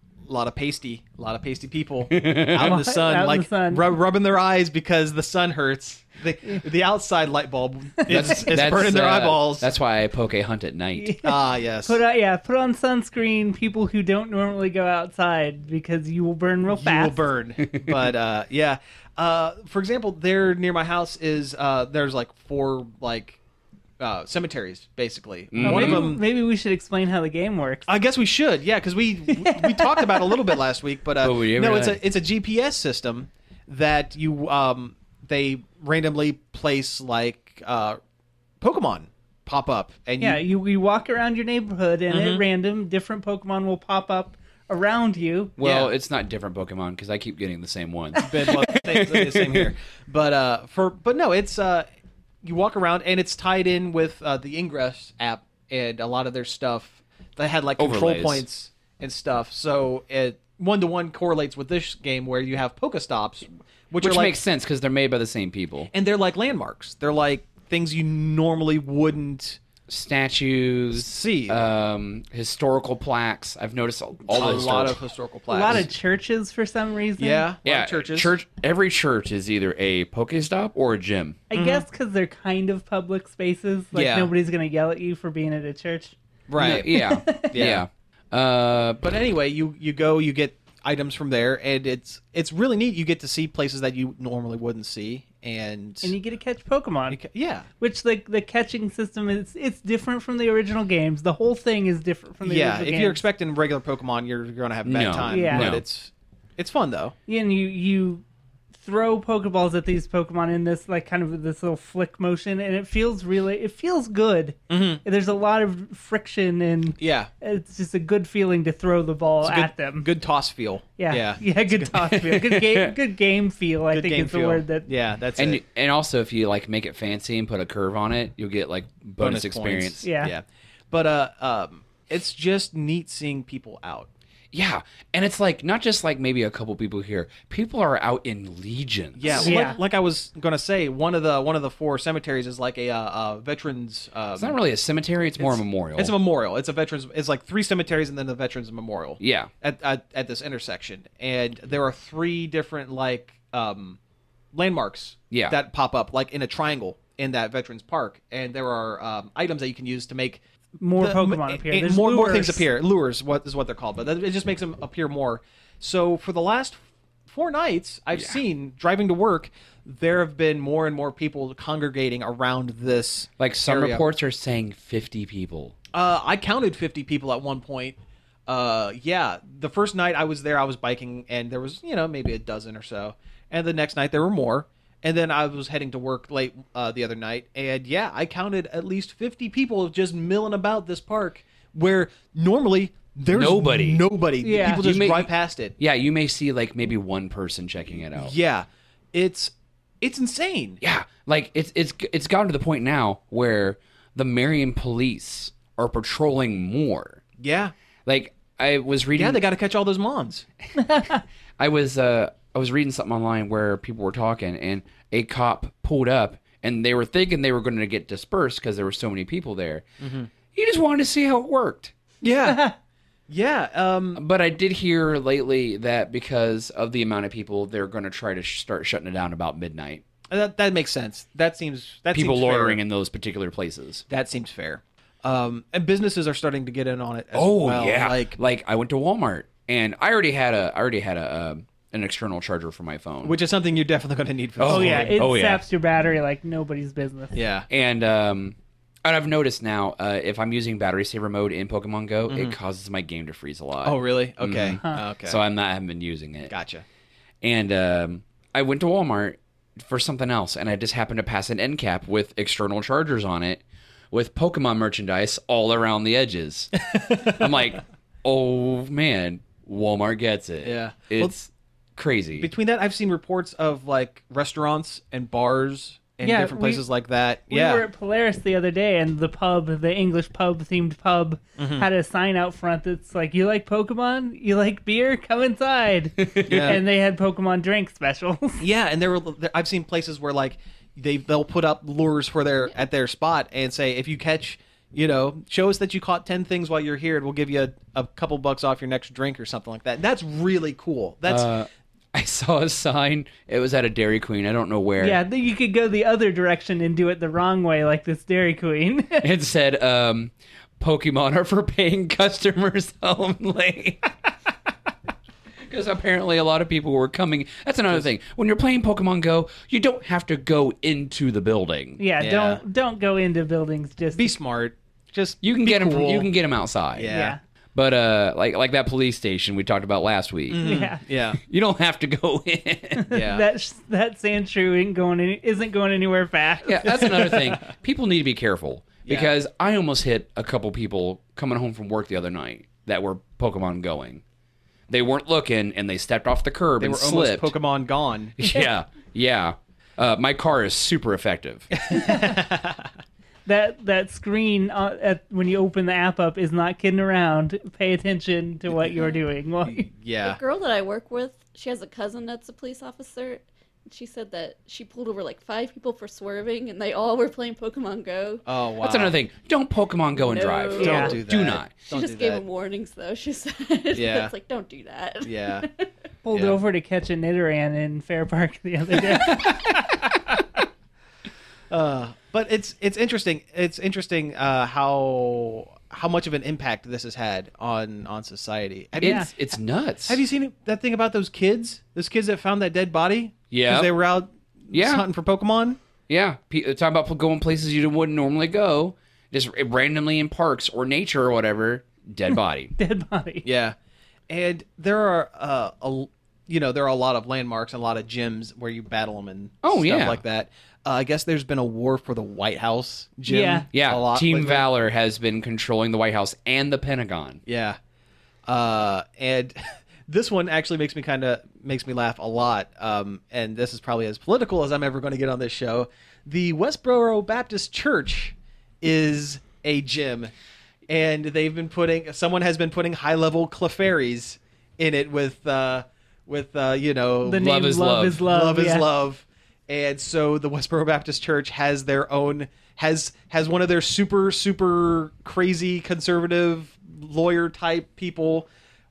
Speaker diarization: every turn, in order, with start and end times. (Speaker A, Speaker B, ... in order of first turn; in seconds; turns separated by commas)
Speaker A: 0.2-9.7, Speaker B: 2.1-2.8, Speaker C: 2.5-3.9, Speaker B: 8.1-11.2, Speaker C: 10.9-17.2, Speaker A: 11.2-12.0, Speaker A: 16.7-23.4, Speaker B: 17.6-18.0, Speaker A: 24.0-26.2, Speaker B: 25.5-26.1, Speaker C: 25.6-27.9, Speaker A: 27.9-38.0, Speaker C: 29.4-30.3, Speaker B: 31.2-32.0, Speaker A: 38.6-40.4, Speaker C: 40.2-45.5, Speaker A: 42.1-42.4, Speaker B: 45.6-49.6, Speaker A: 45.6-45.9, Speaker A: 48.2-51.9, Speaker C: 48.2-48.5, Speaker A: 52.4-64.4, Speaker B: 57.8-58.4, Speaker B: 64.0-65.9, Speaker A: 65.9-69.6, Speaker B: 69.9-75.0, Speaker A: 70.9-71.7, Speaker A: 74.3-75.9, Speaker C: 75.5-77.5, Speaker A: 77.2-78.3, Speaker B: 77.6-81.4, Speaker C: 81.5-87.5, Speaker A: 81.5-81.8, Speaker A: 83.9-84.3, Speaker A: 86.5-86.9, Speaker B: 86.6-89.0, Speaker A: 87.5-87.8, Speaker A: 89.0-96.2, Speaker C: 96.0-97.2, Speaker A: 97.1-97.7, Speaker C: 97.8-103.2, Speaker A: 102.4-107.1, Speaker B: 104.9-105.8, Speaker C: 105.3-105.7, Speaker C: 107.3-108.2, Speaker C: 108.8-120.1, Speaker A: 114.7-115.0, Speaker A: 117.0-117.3, Speaker A: 119.4-121.9, Speaker C: 121.0-124.9, Speaker B: 122.0-122.9, Speaker A: 123.9-125.6, Speaker B: 125.4-130.0, Speaker A: 129.2-134.1, Speaker C: 130.0-130.3, Speaker B: 134.5-139.4, Speaker A: 139.2-144.6, Speaker D: 139.2-139.8, Speaker C: 139.4-139.8, Speaker B: 144.4-146.1, Speaker A: 145.4-154.0, Speaker B: 149.2-149.5, Speaker A: 154.5-160.4, Speaker B: 155.3-155.6, Speaker C: 160.8-162.7, Speaker A: 161.0-174.0, Speaker B: 173.4-175.7, Speaker A: 175.9-195.7, Speaker B: 193.3-194.0, Speaker C: 194.4-194.8, Speaker B: 194.7-198.3, Speaker A: 198.1-200.8, Speaker B: 200.8-207.2, Speaker A: 207.4-207.7, Speaker B: 208.1-209.4, Speaker A: 209.1-210.4, Speaker C: 210.8-211.2, Speaker B: 211.6-219.8, Speaker A: 220.0-220.3, Speaker B: 220.5-221.9, Speaker A: 222.2-222.6, Speaker C: 222.4-222.7, Speaker A: 223.3-224.2, Speaker B: 224.2-230.0, Speaker A: 230.3-232.8, Speaker B: 232.1-234.1, Speaker A: 234.1-238.4, Speaker B: 237.3-243.4, Speaker A: 243.2-245.2, Speaker B: 244.6-245.6, Speaker C: 244.7-247.3, Speaker A: 247.3-247.7, Speaker B: 247.7-256.5, Speaker A: 252.3-252.6, Speaker A: 253.8-255.4, Speaker C: 254.8-255.0, Speaker A: 256.5-256.8, Speaker B: 257.4-272.5, Speaker A: 266.9-267.3, Speaker A: 270.6-271.3, Speaker A: 272.4-277.9, Speaker C: 276.2-276.8, Speaker C: 277.5-288.6, Speaker A: 281.6-281.9, Speaker B: 286.2-286.8, Speaker A: 286.4-286.8, Speaker A: 288.6-301.6, Speaker B: 301.3-305.2, Speaker C: 305.0-309.3, Speaker B: 309.2-314.1, Speaker B: 315.6-322.0, Speaker C: 322.0-324.4, Speaker A: 322.2-322.6, Speaker A: 324.1-326.3, Speaker B: 325.4-327.1, Speaker A: 326.9-327.4, Speaker C: 327.1-327.4, Speaker B: 327.7-330.6, Speaker A: 330.5-331.4, Speaker C: 330.6-331.0, Speaker B: 331.4-333.1, Speaker C: 333.0-337.6, Speaker A: 333.1-333.4, Speaker B: 336.6-344.2, Speaker A: 337.0-337.5, Speaker A: 339.1-339.3, Speaker B: 344.9-347.5, Speaker A: 346.8-348.3, Speaker B: 348.4-351.8, Speaker A: 351.8-352.9, Speaker C: 351.9-352.4, Speaker C: 353.4-359.9, Speaker A: 360.0-360.4, Speaker D: 360.2-368.4, Speaker A: 368.4-369.1, Speaker B: 368.8-371.7, Speaker D: 370.1-371.2, Speaker A: 370.7-372.4, Speaker C: 370.8-371.1, Speaker D: 371.9-375.9, Speaker A: 373.9-374.3, Speaker A: 375.2-375.7, Speaker C: 376.2-379.8, Speaker A: 376.3-376.6, Speaker A: 379.1-380.0, Speaker A: 381.7-389.3, Speaker B: 389.0-390.2, Speaker C: 389.0-389.3, Speaker A: 390.1-395.8, Speaker B: 393.5-393.9, Speaker B: 394.7-395.0, Speaker B: 396.1-402.7, Speaker C: 402.8-403.4, Speaker A: 403.4-403.7, Speaker A: 404.3-414.6, Speaker B: 409.6-410.2, Speaker C: 413.3-413.6, Speaker B: 413.7-417.4, Speaker A: 417.4-417.8, Speaker A: 418.4-430.3, Speaker A: 430.9-437.5, Speaker C: 437.2-438.9, Speaker B: 437.3-438.2, Speaker A: 438.2-448.5